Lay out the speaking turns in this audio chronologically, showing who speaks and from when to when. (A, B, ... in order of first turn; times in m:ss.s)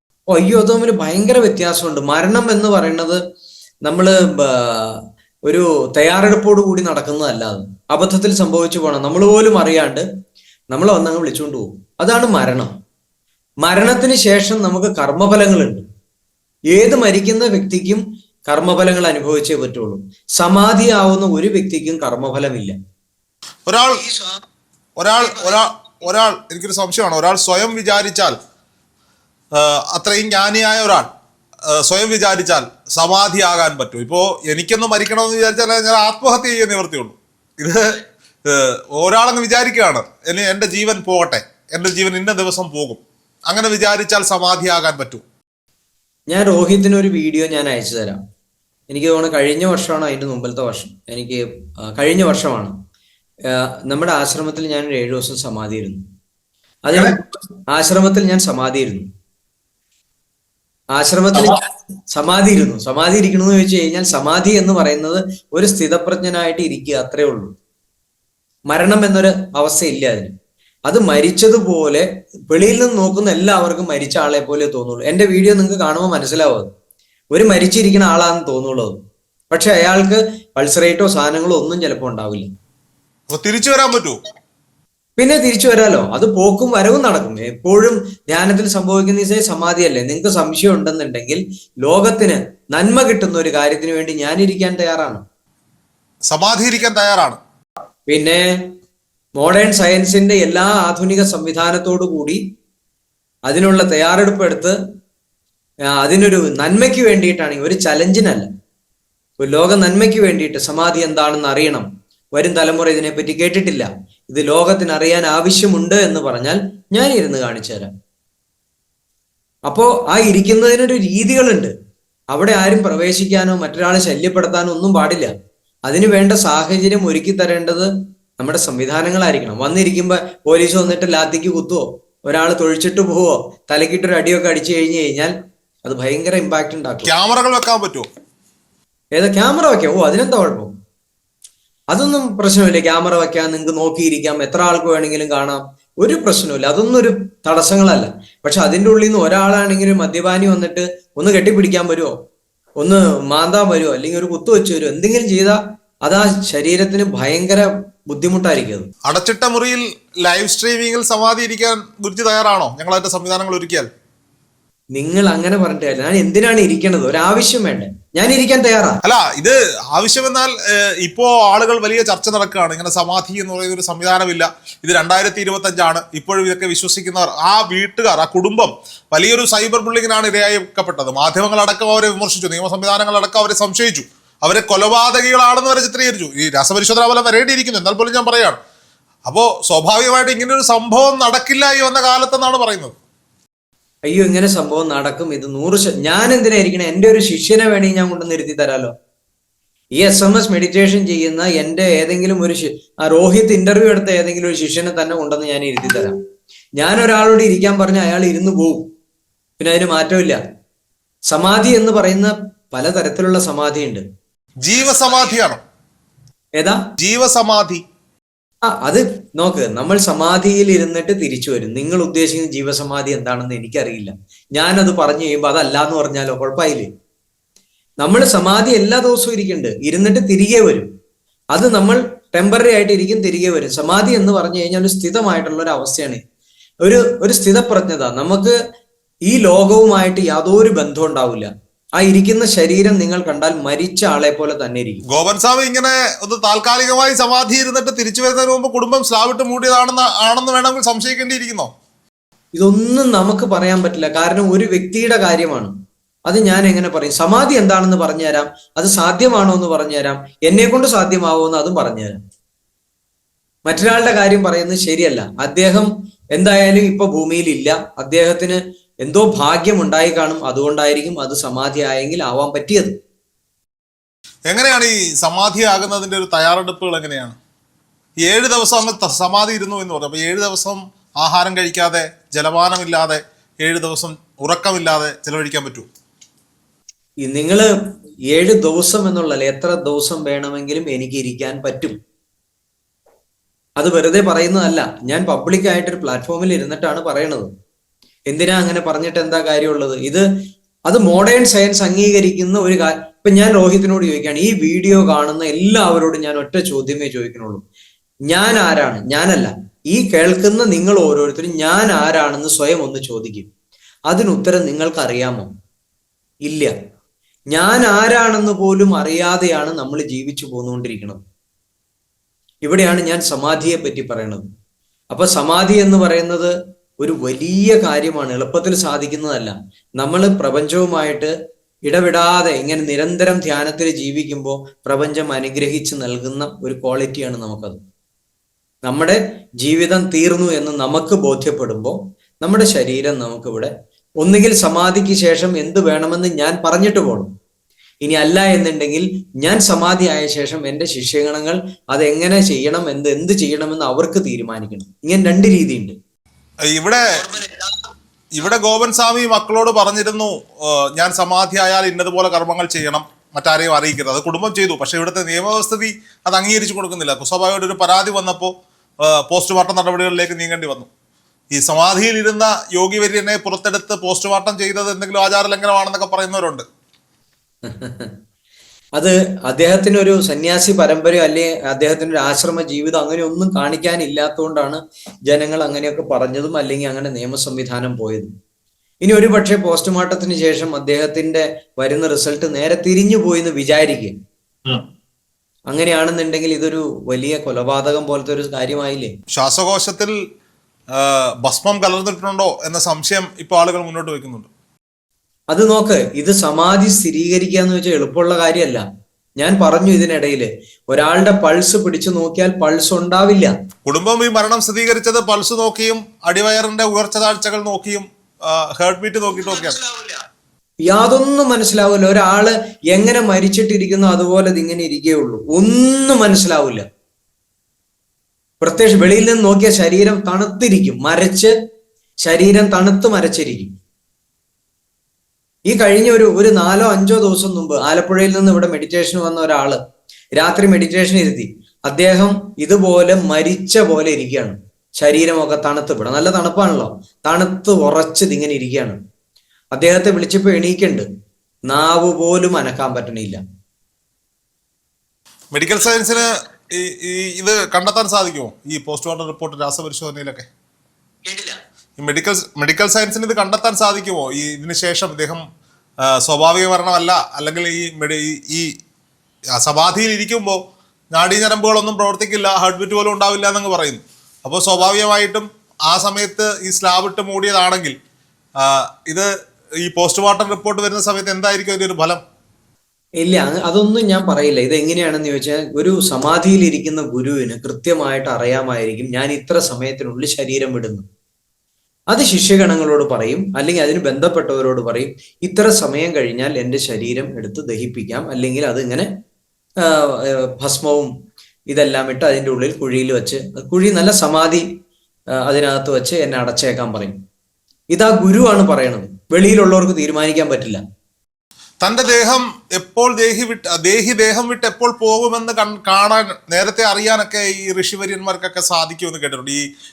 0:00.3-0:03.2 A
0:03.8-0:10.0 A
0:10.7-0:12.8 A
0:13.6-0:15.8 A
0:16.7-0:22.8 A
0:23.7-0:24.1 B
0:25.0-0:28.4 B
0:29.5-0:31.1 B
0:31.7-0:45.2 B
0:46.3-0:48.2 A
0:48.9-0:52.8 A
0:53.5-0:56.0 A
0:56.8-0:59.1 A
1:00.9-1:07.5 A
1:08.7-1:10.3 A
1:10.9-1:16.7 A
1:17.3-1:19.0 A
1:19.5-1:22.5 A
1:23.3-1:24.2 B
1:25.2-1:35.2 A
1:36.3-1:37.4 B
1:38.1-1:38.7 A
1:39.4-1:42.4 A
1:43.5-1:44.8 A
1:46.0-1:48.5 A
1:49.4-1:57.9 A
1:59.7-2:01.7 A
2:02.3-2:05.3 A
2:05.9-2:15.3 A
2:15.8-2:17.1 A
2:17.0-2:18.0 B
2:19.1-2:20.7 A
2:21.9-2:32.1 A
2:32.8-2:38.9 A
2:39.0-2:43.9 B
2:44.9-2:49.0 A
2:49.0-3:08.6 B
3:09.2-3:12.9 B
3:14.1-3:18.9 A
3:20.0-3:26.2 A
3:26.8-3:28.8 A
3:29.6-3:30.4 A
3:31.3-3:34.0 A
3:34.6-3:35.6 B
3:36.6-3:36.8 A
3:37.0-3:37.8 B
3:38.6-3:46.9 A
3:48.0-3:50.9 A
3:51.5-3:56.2 A
3:56.8-3:58.6 A
3:59.3-4:05.0 A
4:05.1-4:11.7 B
4:12.5-4:15.7 A
4:16.3-4:22.2 A
4:23.6-4:32.9 A
4:34.5-4:37.4 B
4:38.2-4:45.9 B
4:47.2-4:47.7 A
4:48.3-4:52.0 A
4:53.8-4:57.5 A
4:58.3-5:00.3 A
5:00.9-5:07.6 A
5:08.3-5:13.5 A
5:14.1-5:15.5 A
5:16.4-5:16.7 A
5:17.5-5:21.2 A
5:22.6-5:24.4 A
5:25.1-5:31.3 A
5:31.8-5:37.8 A
5:38.8-5:47.3 A
5:48.0-5:56.0 A
5:56.6-5:57.2 B
5:58.3-6:10.9 B
6:11.5-6:16.6 B
6:17.6-6:18.2 A
6:19.0-6:28.3 A
6:29.0-6:34.2 A
6:35.7-6:39.1 A
6:39.3-6:40.1 B
6:40.9-6:44.5 B
6:45.5-6:48.8 A
6:49.4-6:53.5 A
6:53.8-6:59.8 B
6:59.6-7:00.2 A
7:00.9-7:06.8 A
7:08.6-7:11.5 A
7:12.2-7:13.7 A
7:15.7-7:19.8 A
7:20.4-7:29.0 A
7:29.7-7:31.0 A
7:31.7-7:33.4 A
7:35.5-7:40.5 B
7:41.2-7:41.6 A
7:42.0-7:45.4 B
7:46.0-7:48.7 B
7:49.5-7:50.6 B
7:51.1-7:57.9 B
7:58.6-7:59.3 B
7:59.8-8:02.2 B
8:03.2-8:11.0 A
8:12.1-8:19.1 A
8:19.8-8:21.1 A
8:21.7-8:24.6 A
8:25.4-8:27.2 A
8:27.9-8:30.8 A
8:31.8-8:39.6 B